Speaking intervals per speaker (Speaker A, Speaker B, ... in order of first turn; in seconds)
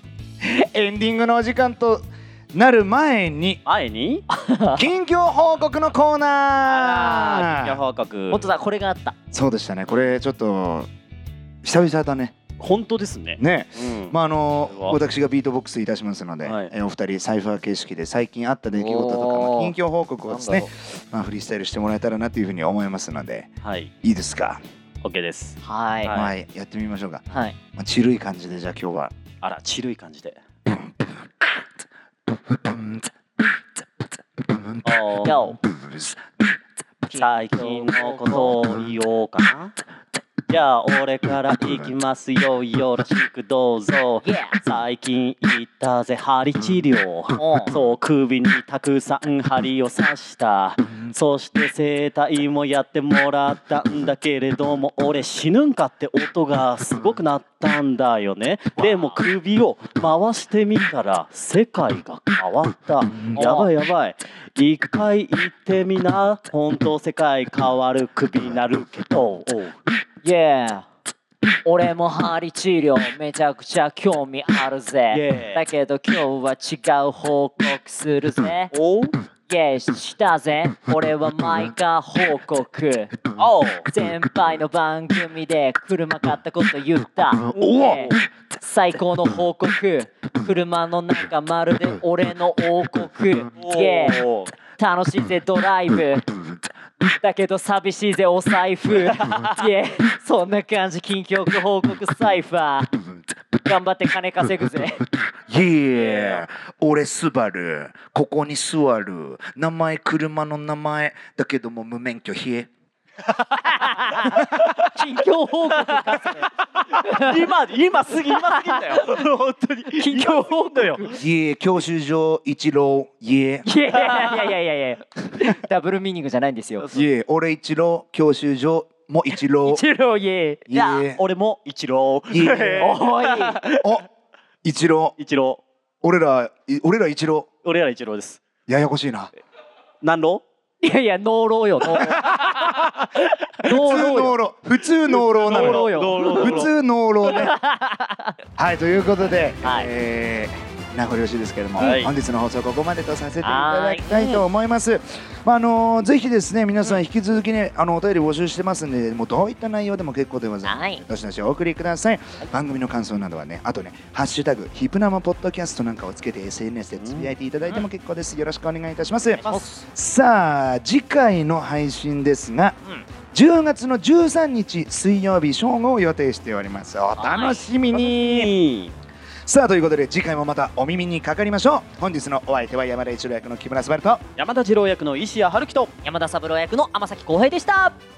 Speaker A: 0.4-3.6, 4.7-7.8, 9.3-10.9, 11.6-12.4, 13.4-23.5, 24.0-24.6, 26.1-27.2, 27.7-29.1, 30.7-31.5, 32.3-33.4, 34.4-34.9, 35.7-36.5, 105.5-112.7, 121.1-123.7, 126.9-129.8, 130.7-131.2, 132.3-133.0, 133.8-134.1, 134.6-135.2, 136.0-137.5, 138.7-139.3, 142.0-143.0, 143.6-147.6, 148.6-172.8, 173.3-178.5, 179.4-184.2
Speaker B: 3.6-4.2, 6.6-8.5, 12.6-14.1, 14.7-15.0, 16.4-16.7, 23.6-23.9, 25.0-26.3, 29.4-30.4, 34.8-35.5, 37.1-39.7, 40.5-69.8, 75.1-75.6, 78.7-79.2, 83.3-83.9, 87.5-88.1, 93.6-94.5, 99.0-99.7, 106.0-106.4, 114.6-114.8, 115.7-116.2, 116.9-121.2, 124.0-124.5, 130.7-134.0, 135.2-135.6, 137.6-138.4, 140.0-140.4, 142.1-142.7, 145.3-146.7, 151.8-152.1, 154.1-154.4, 167.0-167.3, 169.4-169.6, 177.9-178.9, 184.4-185.9
Speaker C: 4.3-4.8, 8.3-9.2, 18.7-19.7, 20.3-20.7, 25.6-26.1, 27.3-27.6, 35.2-35.6, 37.1-38.6, 44.2-44.6, 47.4-47.8, 63.3-63.7, 70.2-70.9, 71.6-78.7, 79.5-83.2, 83.9-96.3, 97.0-103.0, 103.6-105.1, 113.6-117.5, 118.3-119.2, 119.9-121.2, 123.6-126.9, 129.6-130.6, 132.8-133.6, 140.8-142.9, 143.6-144.4, 145.3-146.7, 147.3-148.3, 149.6-149.9, 153.4-154.2, 160.6-161.0, 169.4-169.8, 177.2-177.6, 186.0-188.0